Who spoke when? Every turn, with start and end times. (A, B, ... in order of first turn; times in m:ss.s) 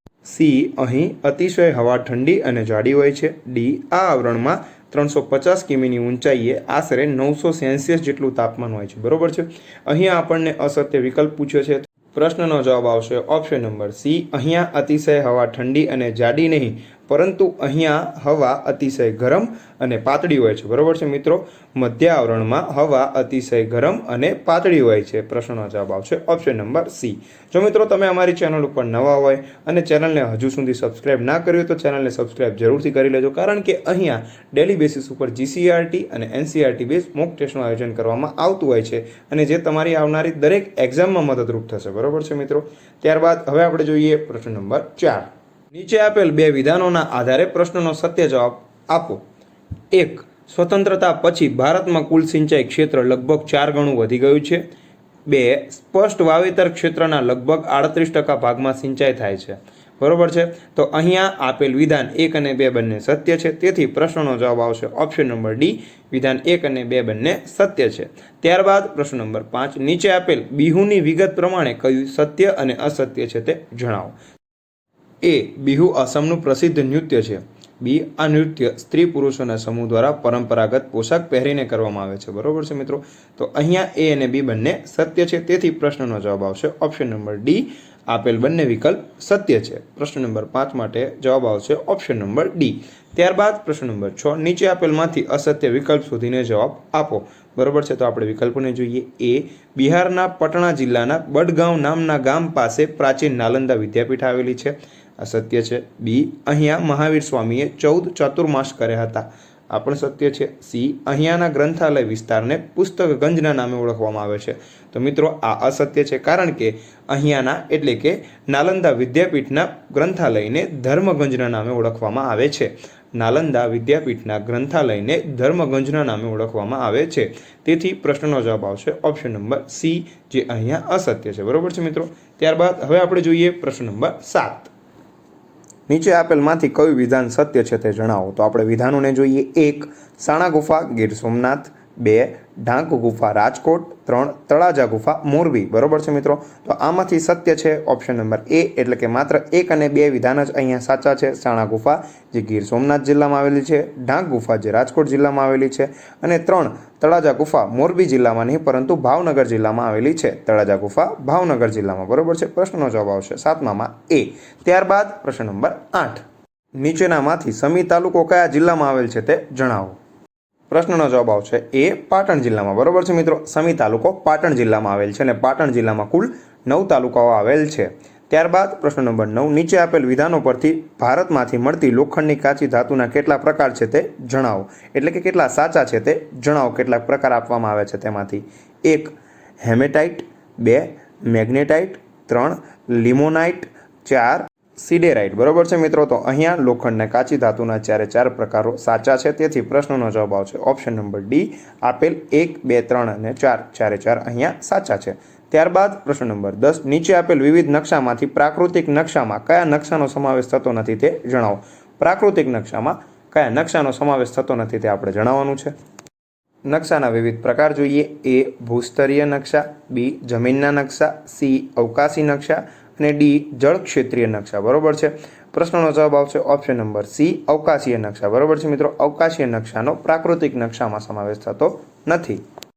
0:00.2-0:49.2 A
0:49.9-0:54.6 A
0:55.3-1:14.2 A
1:15.2-2:14.7 A
2:15.9-2:46.2 A
2:46.8-2:50.0 A
2:50.7-3:35.7 A
3:36.7-3:52.4 A